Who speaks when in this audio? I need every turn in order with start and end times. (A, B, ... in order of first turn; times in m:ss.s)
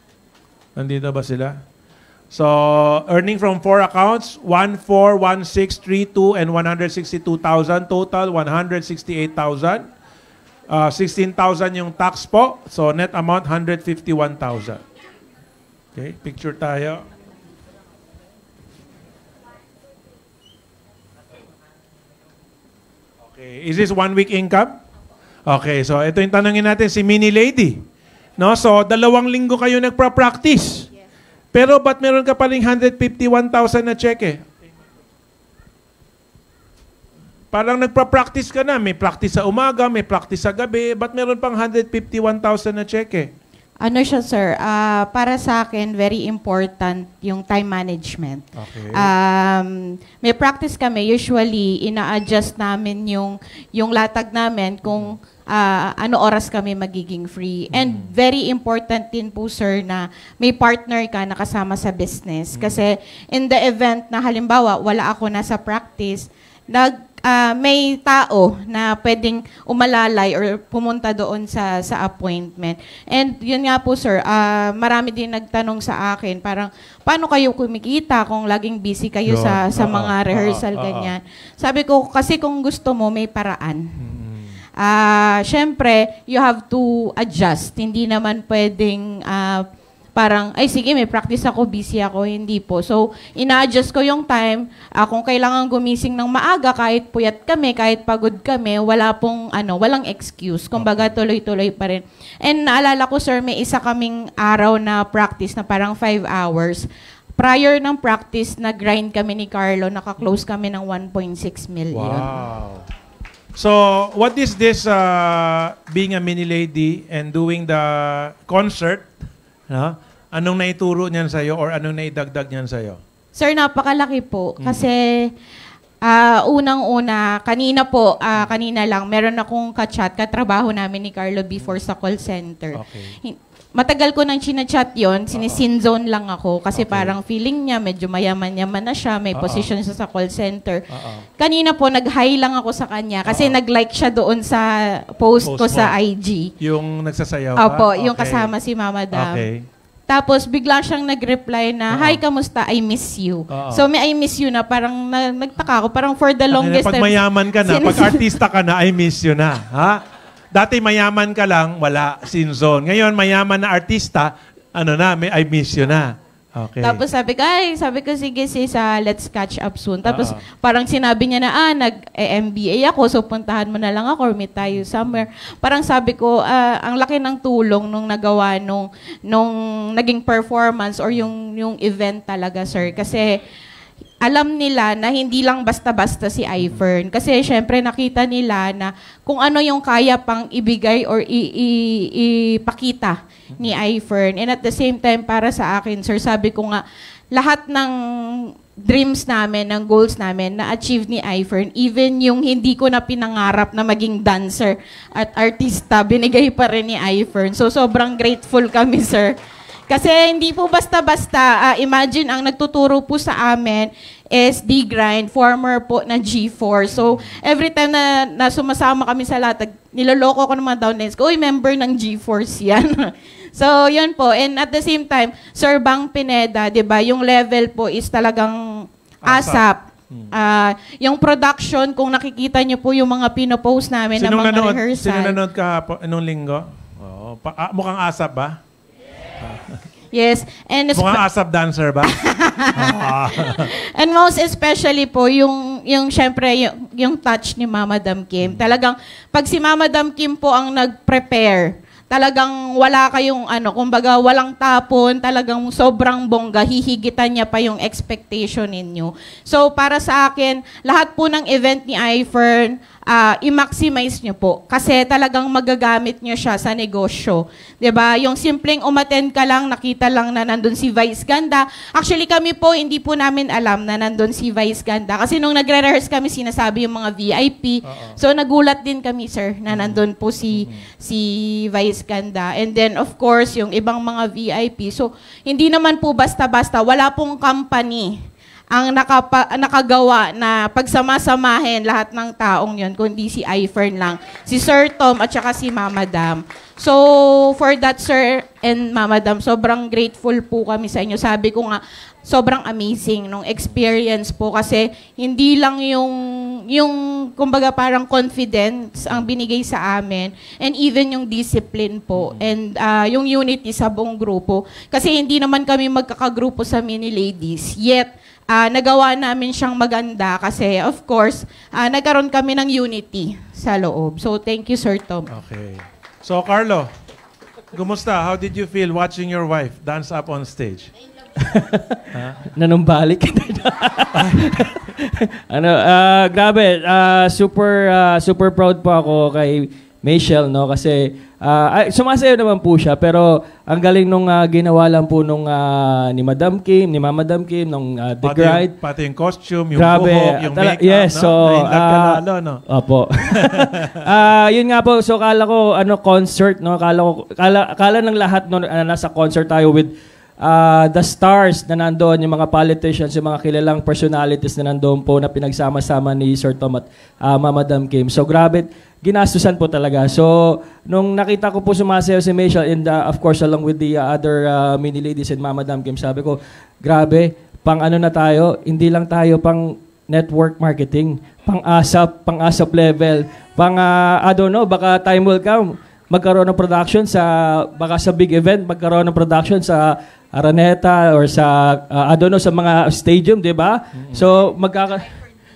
0:00.8-0:01.6 A
0:02.3-0:09.9 A
0:10.7-0:14.8 A
0:15.9-0:17.0 A
0:23.2-0:24.7 A
0:25.5-0:27.8 A
0:28.4-0:30.9 A
0:31.5-0:34.4 A
0:37.5-0:43.3 A
0:43.8-1:24.0 B
0:48.5-0:49.1 A
0:54.9-0:55.1 A
0:57.7-0:58.1 A
1:02.5-1:02.8 A
1:19.3-1:21.1 A
1:24.0-1:24.6 A
1:24.8-1:46.8 B
1:40.8-1:41.1 A
1:47.4-1:52.4 B
1:51.9-1:52.8 A
1:53.6-1:59.1 A
1:59.7-2:03.0 A
2:03.3-2:05.3 B
2:06.0-2:26.5 B
2:12.7-2:13.2 A
2:15.3-2:15.6 A
2:16.7-2:17.1 A
2:19.3-2:19.7 A
2:20.9-2:21.2 A
2:23.2-2:23.6 A
2:25.4-2:26.0 A
2:26.6-2:28.5 A
2:27.6-2:29.4 B
2:29.1-2:29.6 A
2:30.1-2:38.2 B
2:31.9-2:32.2 A
2:33.5-2:33.8 A
2:36.5-2:40.0 A
2:40.5-2:47.0 A
2:46.8-3:03.4 B
2:50.0-2:50.4 A
2:54.7-2:55.2 A
3:02.7-3:03.1 A
3:04.2-3:16.8 B
3:17.3-3:29.3 B
3:29.9-3:48.6 B
3:37.0-3:37.4 A
3:49.2-3:50.3 A
3:49.3-3:49.8 B
3:50.3-3:55.4 B
3:54.2-3:58.6 A
3:59.4-3:59.8 A
4:00.1-4:01.2 B
4:00.9-4:02.1 A
4:02.1-4:48.1 B
4:02.7-4:03.7 A
4:08.4-4:08.7 A
4:37.8-4:38.2 A
4:39.7-4:40.0 A
4:40.5-4:40.8 A
4:48.7-5:25.3 B
5:12.1-5:12.5 A
5:25.3-5:26.9 A
5:27.7-5:30.9 A
5:31.4-5:48.7 C
5:32.1-5:32.4 A
5:34.2-5:34.5 A
5:48.2-5:52.6 A
5:49.7-6:35.1 C
5:53.3-5:54.0 A
6:33.9-6:34.2 A